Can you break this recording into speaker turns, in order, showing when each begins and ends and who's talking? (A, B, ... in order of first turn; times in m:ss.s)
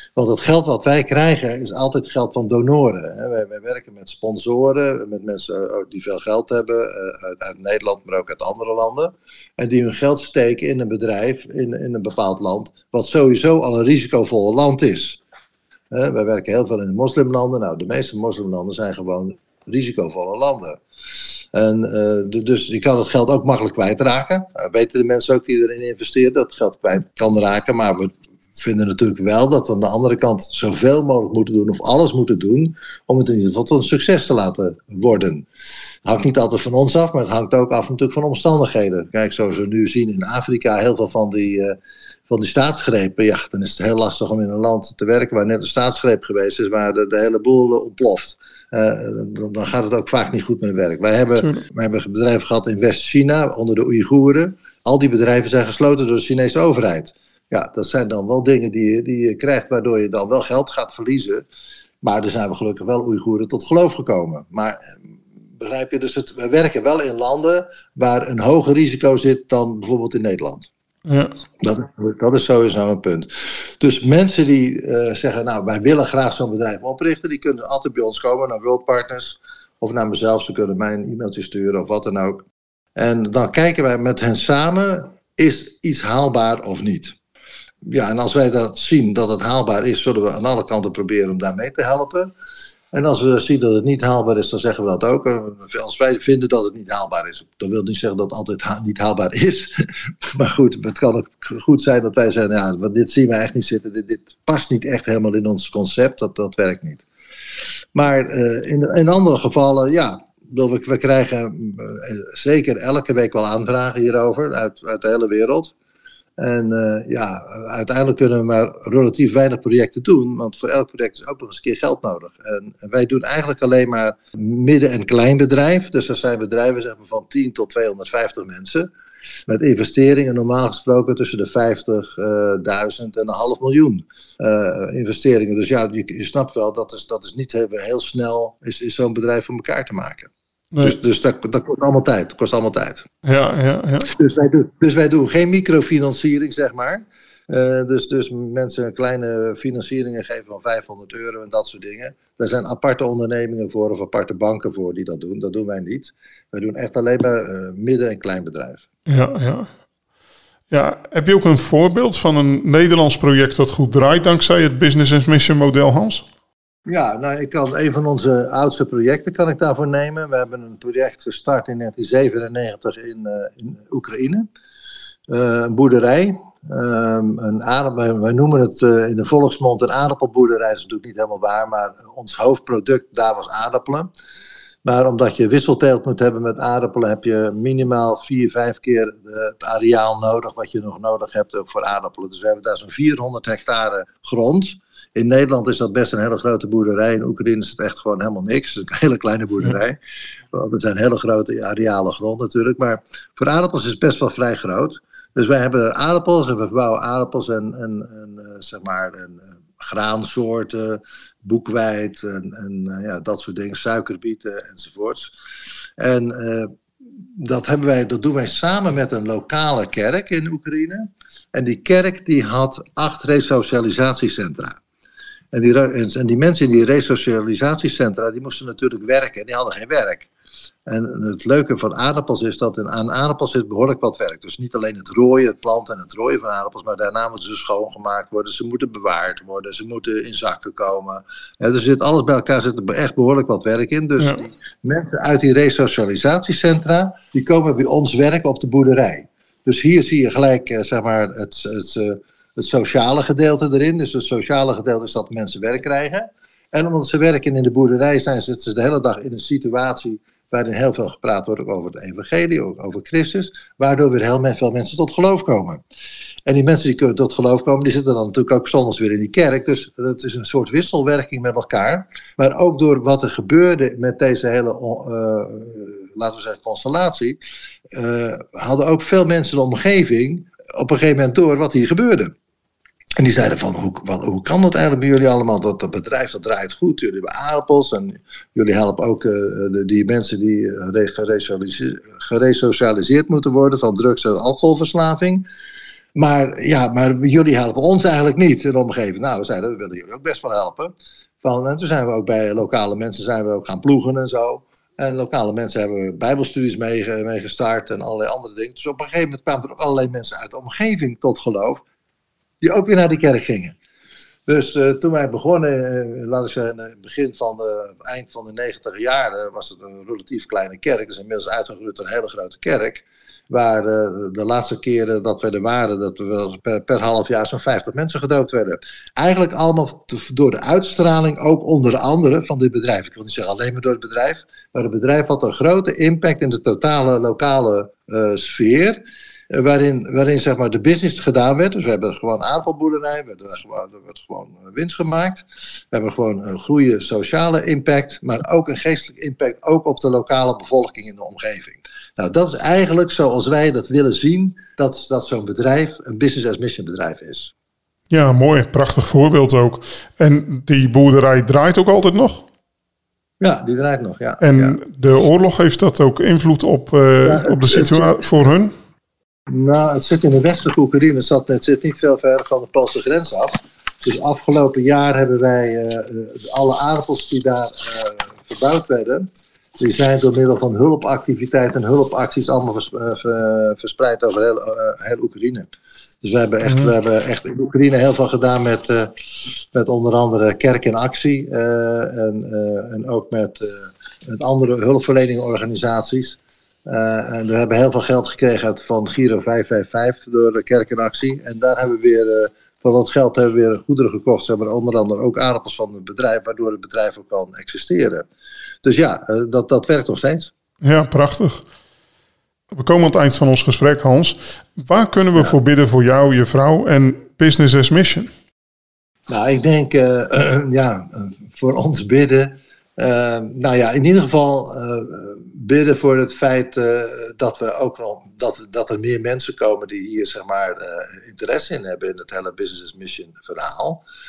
0:00.2-0:15.2 A
0:15.9-0:20.8 A
0:21.5-0:35.5 A
0:36.0-0:41.8 A
0:42.3-1:01.4 A
0:51.4-0:51.6 B
1:02.0-1:05.0 A
1:05.6-1:10.7 A
1:11.1-1:11.3 B
1:11.6-1:13.3 A
1:13.8-1:22.4 A
1:23.0-1:27.2 A
1:27.9-1:32.3 A
1:32.9-1:47.0 A
1:48.0-1:55.7 A
1:56.4-2:08.9 A
2:09.5-2:23.1 A
2:23.2-2:24.1 B
2:24.0-2:38.8 A
2:39.1-2:39.7 B
2:40.7-2:46.2 B
2:46.9-2:54.5 A
2:55.3-3:04.1 A
3:04.8-3:20.0 A
3:20.5-3:35.3 A
3:36.0-3:36.7 A
3:37.4-3:44.8 A
3:45.5-3:50.3 A
3:50.9-4:25.8 A
4:26.5-4:37.4 A
4:37.9-4:42.3 A
4:43.2-4:55.4 A
4:56.2-5:11.8 A
5:12.6-5:13.8 A
5:14.5-5:57.5 A
5:58.1-6:02.5 B
6:03.4-6:04.8 A
6:04.4-6:08.7 B
6:07.2-6:08.1 A
6:09.5-6:25.7 A
6:26.2-6:29.1 A
6:26.6-6:26.9 B
6:29.7-6:48.3 A
6:48.8-6:50.5 A
6:50.8-6:51.6 B
6:52.7-6:58.3 B
6:59.3-7:14.0 A